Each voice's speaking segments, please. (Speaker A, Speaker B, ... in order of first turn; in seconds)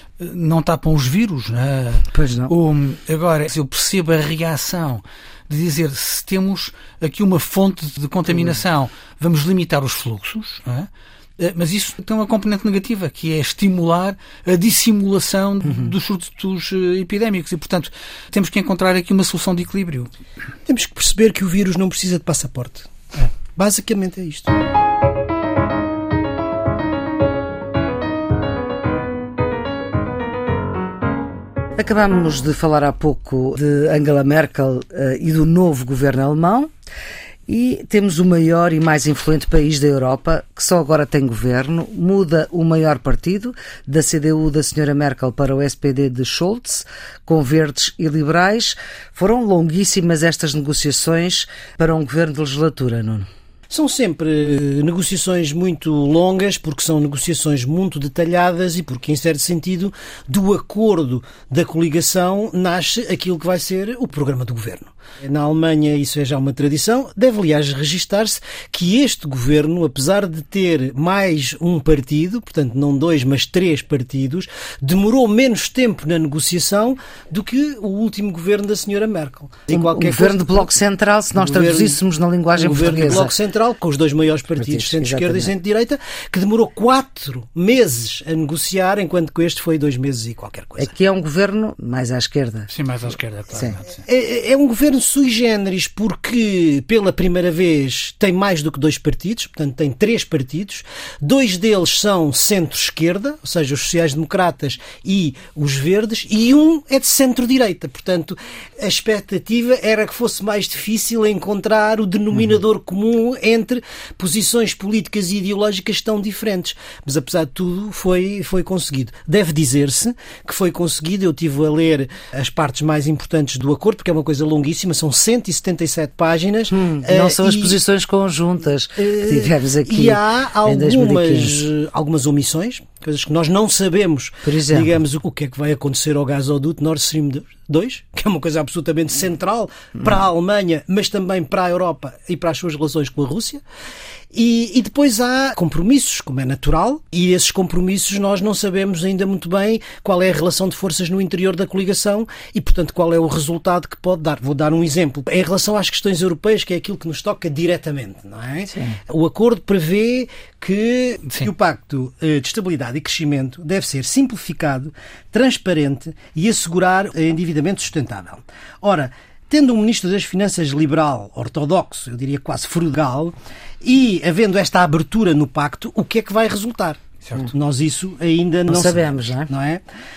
Speaker A: 0.2-20.1, 92.7-94.0
Speaker B: 2.1-2.5, 31.8-36.7, 37.5-53.3, 79.7-83.3, 84.6-85.5, 90.8-92.7, 93.5-93.8, 126.7-131.6, 134.4-134.9, 178.7-179.5
Speaker C: 20.7-24.5, 53.7-80.7, 81.4-82.0, 82.6-90.9, 94.0-127.8, 129.0-143.6, 144.3-179.8